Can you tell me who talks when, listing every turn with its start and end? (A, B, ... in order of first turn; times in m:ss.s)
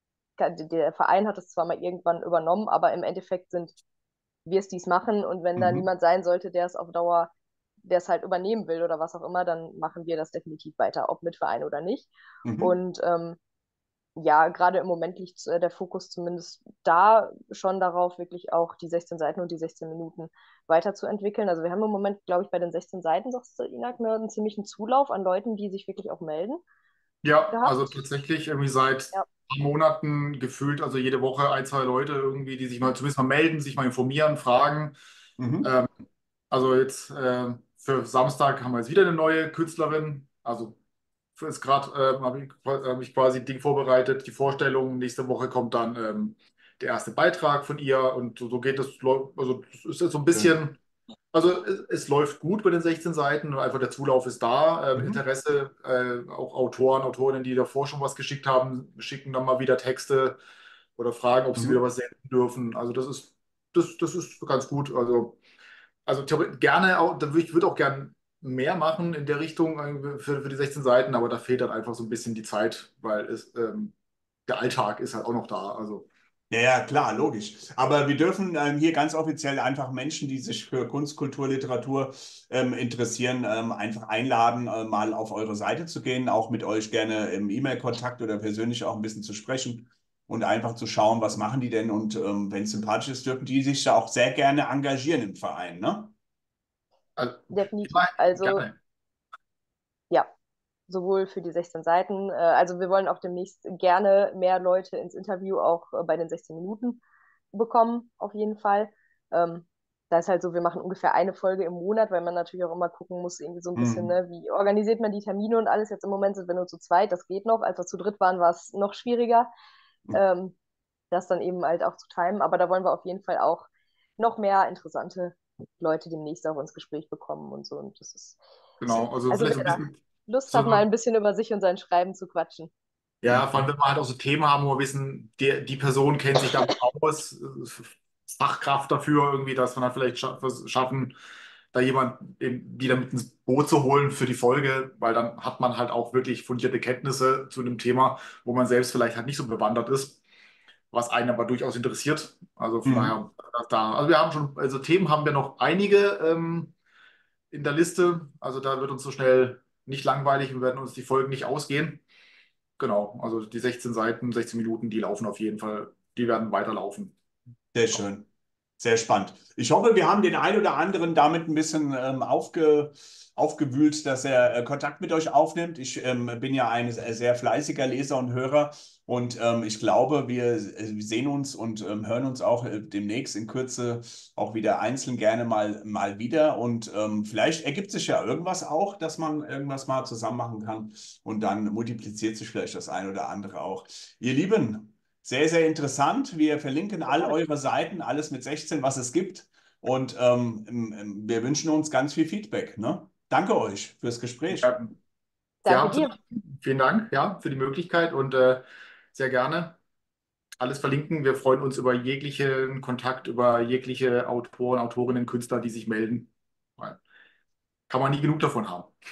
0:00.4-0:03.8 A
0:04.5-0:07.3 A
0:05.6-0:05.9 B
0:07.8-0:13.4 A
0:12.4-0:12.8 B
0:14.2-0:26.6 A
0:27.2-0:35.0 C
0:27.5-0:28.0 A
0:35.4-0:35.7 B
0:35.6-0:35.9 C
0:36.5-0:40.8 C
0:41.4-0:50.8 C
0:51.3-1:00.4 C
1:01.0-1:05.4 C
1:06.1-1:13.9 C
1:14.5-1:16.1 C
1:16.5-1:36.1 B
1:37.2-1:38.8 C
1:37.5-1:38.6 A
1:40.9-1:47.0 A
1:47.5-1:59.5 A
1:53.8-1:54.2 B
2:00.1-2:00.6 A
2:01.1-2:08.4 A
2:08.8-2:10.0 C
2:08.9-2:12.7 A
2:10.5-2:10.8 C
2:13.2-2:21.2 C
2:13.3-2:13.6 B
2:21.7-2:30.2 C
2:30.9-2:36.7 C
2:32.9-2:33.2 B
2:37.5-2:42.0 C
2:42.8-2:47.1 C
2:47.7-2:48.3 B
2:48.8-3:24.7 B
3:17.1-3:17.4 A
3:24.5-3:25.0 C
3:25.6-3:26.2 A
3:25.7-3:29.8 C
3:30.6-3:37.0 C
3:37.9-3:38.9 C